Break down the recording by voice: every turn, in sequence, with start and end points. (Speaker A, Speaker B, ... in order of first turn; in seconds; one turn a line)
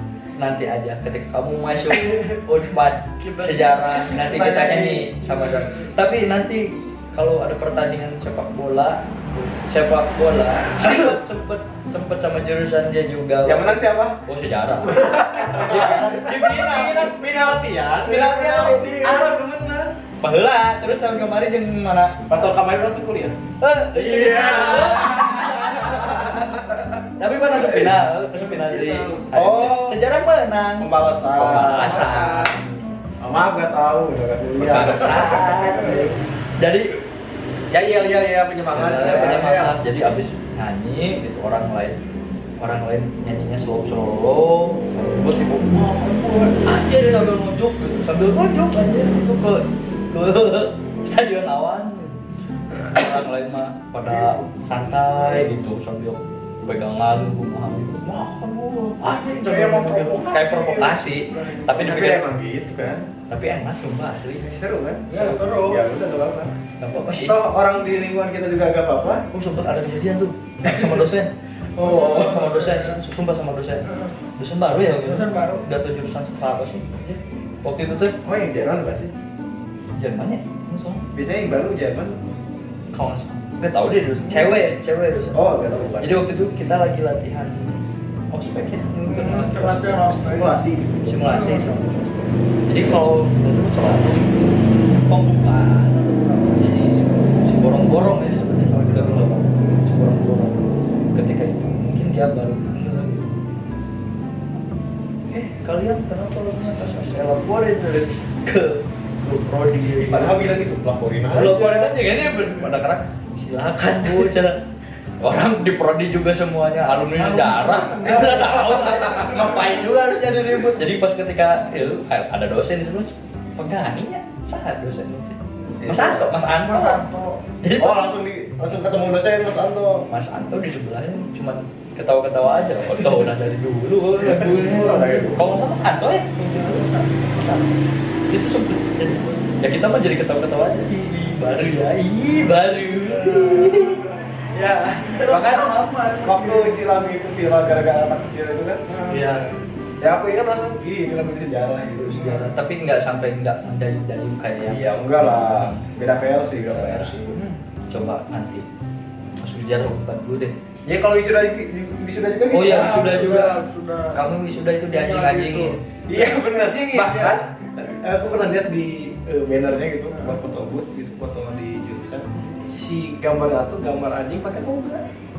Speaker A: 0.4-17.1
Speaker B: 3.2-5.6
Speaker C: 4.3-5.0
Speaker C: 13.4-14.2
Speaker C: 14.9-19.9
Speaker A: 18.0-18.9
Speaker B: 18.2-19.3
Speaker A: 20.2-22.3
Speaker C: 22.3-23.4
Speaker A: 23.6-26.2
Speaker B: 24.1-25.3
Speaker C: 24.1-26.9
Speaker A: 27.2-32.9
Speaker C: 27.5-27.9
Speaker B: 28.6-29.2
Speaker C: 28.8-30.0
Speaker C: 30.8-32.5
Speaker C: 33.2-36.1
Speaker A: 34.6-36.9
Speaker C: 37.7-39.8
Speaker A: 38.7-42.0
Speaker A: 42.6-52.2
Speaker A: 52.8-62.3
Speaker B: 59.0-61.7
Speaker C: 61.7-63.1
Speaker A: 63.3-64.5
Speaker C: 64.4-66.5
Speaker B: 65.1-65.8
Speaker A: 66.8-67.4
Speaker C: 67.2-69.2
Speaker A: 69.3-71.3
Speaker C: 70.7-71.0
Speaker C: 71.8-72.5
Speaker B: 71.8-72.9
Speaker A: 71.8-73.9
Speaker A: 74.4-78.2
Speaker B: 75.0-75.6
Speaker C: 78.2-79.1
Speaker A: 80.0-81.0
Speaker C: 81.1-82.2
Speaker A: 82.9-87.8
Speaker C: 85.3-86.3
Speaker A: 88.3-90.2
Speaker B: 89.0-90.6
Speaker C: 90.3-91.1
Speaker A: 91.1-103.4
Speaker B: 91.3-91.7
Speaker C: 98.8-99.3
Speaker A: 105.3-110.5
Speaker C: 110.0-111.9
Speaker A: 111.3-114.6
Speaker A: 115.2-127.0
Speaker B: 117.2-118.9
Speaker C: 118.1-119.5
Speaker C: 125.8-126.3
Speaker B: 126.6-127.4
Speaker A: 127.6-128.2
Speaker C: 127.8-130.1
Speaker A: 130.1-137.7
Speaker C: 134.2-135.6
Speaker B: 134.9-135.5
Speaker B: 136.4-137.3
Speaker A: 138.3-144.0
Speaker B: 143.1-144.0
Speaker C: 144.5-149.2
Speaker B: 145.1-146.8
Speaker A: 149.1-149.5
Speaker C: 150.0-152.2
Speaker A: 152.0-155.8
Speaker B: 152.1-152.6
Speaker C: 154.6-157.2
Speaker A: 156.5-158.7
Speaker A: 159.4-160.6
Speaker C: 160.8-163.3
Speaker A: 162.5-163.6
Speaker B: 162.6-164.2
Speaker A: 164.1-165.8
Speaker B: 164.9-167.5
Speaker C: 166.1-175.1